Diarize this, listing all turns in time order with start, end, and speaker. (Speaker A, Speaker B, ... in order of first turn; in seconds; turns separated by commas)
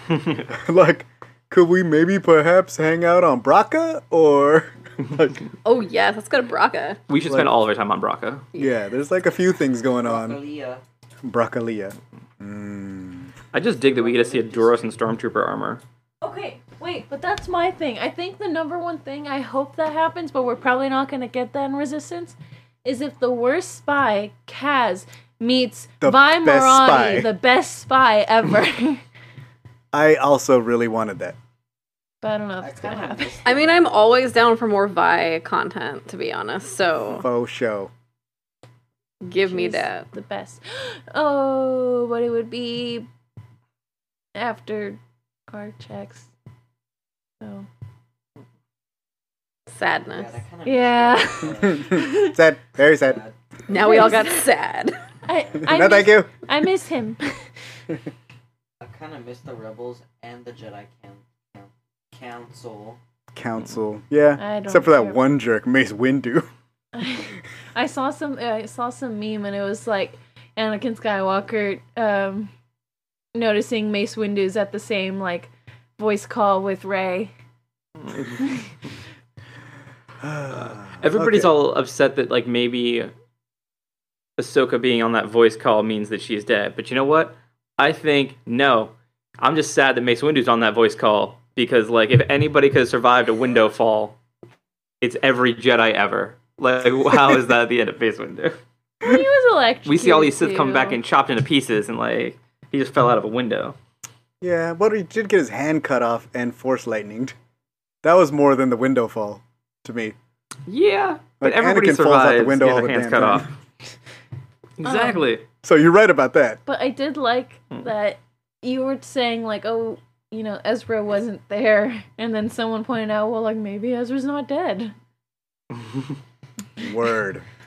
Speaker A: 0.5-5.4, Speaker B: 5.7-7.0, Speaker C: 7.1-8.5, Speaker A: 7.3-7.5, Speaker A: 8.6-10.4, Speaker D: 10.0-10.8, Speaker A: 11.2-13.3, Speaker C: 13.5-15.8, Speaker D: 13.8-15.0, Speaker E: 16.2-29.0, Speaker A: 26.0-27.3, Speaker A: 29.9-31.4, Speaker E: 32.2-33.4, Speaker D: 32.6-34.2, Speaker B: 33.5-37.3, Speaker A: 37.1-37.9, Speaker B: 39.2-40.1, Speaker E: 39.4-43.1, Speaker E: 44.4-46.3, Speaker E: 47.4-47.7, Speaker B: 49.7-50.4, Speaker D: 50.1-52.0, Speaker E: 50.6-52.4, Speaker A: 51.6-53.2, Speaker D: 53.1-54.1, Speaker B: 53.7-55.0, Speaker E: 53.7-54.5, Speaker E: 55.2-57.5, Speaker A: 55.6-56.3, Speaker D: 58.8-63.0, Speaker A: 63.4-66.5, Speaker E: 64.4-65.2, Speaker E: 66.9-72.5, Speaker E: 73.3-77.3, Speaker C: 78.0-78.3, Speaker A: 80.2-81.5, Speaker C: 80.5-83.1, Speaker C: 84.4-94.2, Speaker C: 95.0-98.6, Speaker E: 99.0-101.0, Speaker C: 99.9-103.8, Speaker A: 104.4-107.4, Speaker A: 108.0-110.2, Speaker C: 110.7-113.5, Speaker A: 111.4-113.5, Speaker C: 114.8-115.4, Speaker E: 114.8-115.3, Speaker A: 115.6-116.6, Speaker E: 116.7-125.0, Speaker A: 126.8-127.4